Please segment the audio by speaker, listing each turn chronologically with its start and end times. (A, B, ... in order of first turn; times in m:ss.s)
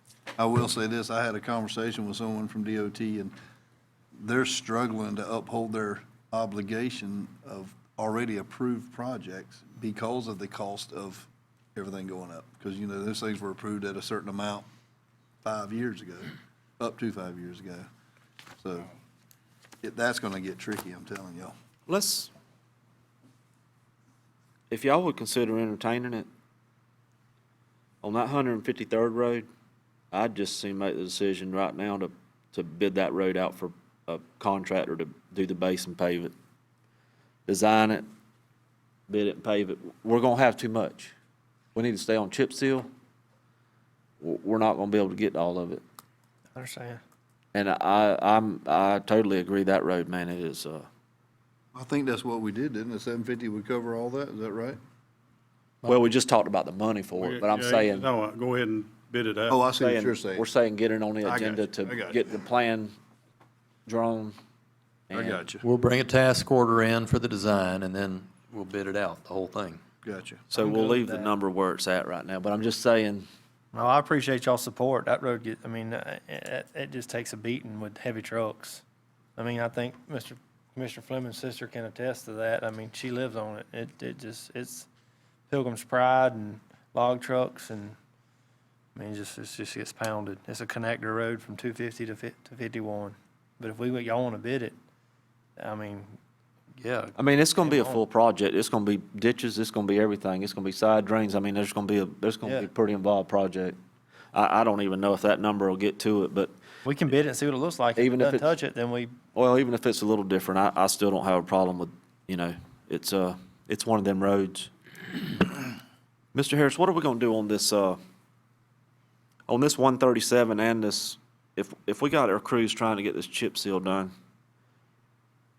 0:00.4-0:03.3 A
0:04.2-0:14.6 A
0:15.4-0:17.9 A
0:18.6-0:18.9 A
0:19.8-0:21.5 A
0:21.9-0:22.3 B
0:24.7-0:26.3 B
0:28.0-0:29.4 B
0:30.1-0:36.3 B
0:37.5-0:38.0 B
0:39.1-0:41.1 B
0:41.7-0:42.9 B
0:44.2-0:45.8 B
0:46.5-0:47.0 C
0:47.5-0:50.9 B
0:51.7-0:54.8 A
0:55.8-0:58.1 B
0:57.1-0:59.6 D
0:59.5-1:00.4 A
0:59.8-1:02.9 B
1:01.2-1:02.2 A
1:03.8-1:04.4 B
1:05.1-1:05.4 B
1:05.1-1:05.6 A
1:05.6-1:09.8 E
1:10.0-1:10.4 A
1:10.5-1:13.2 B
1:10.5-1:11.3 C
1:13.7-1:18.8 C
1:19.4-1:24.9 C
1:25.5-1:28.0 C
1:28.9-1:34.7 C
1:35.6-1:36.2 C
1:36.8-1:38.0 C
1:37.2-1:43.8 B
1:42.4-1:42.7 C
1:44.3-1:46.5 B
1:46.8-1:49.1 C
1:48.0-1:48.5 B
1:49.3-1:54.7 B
1:56.3-1:58.0 B
1:59.5-2:04.1 B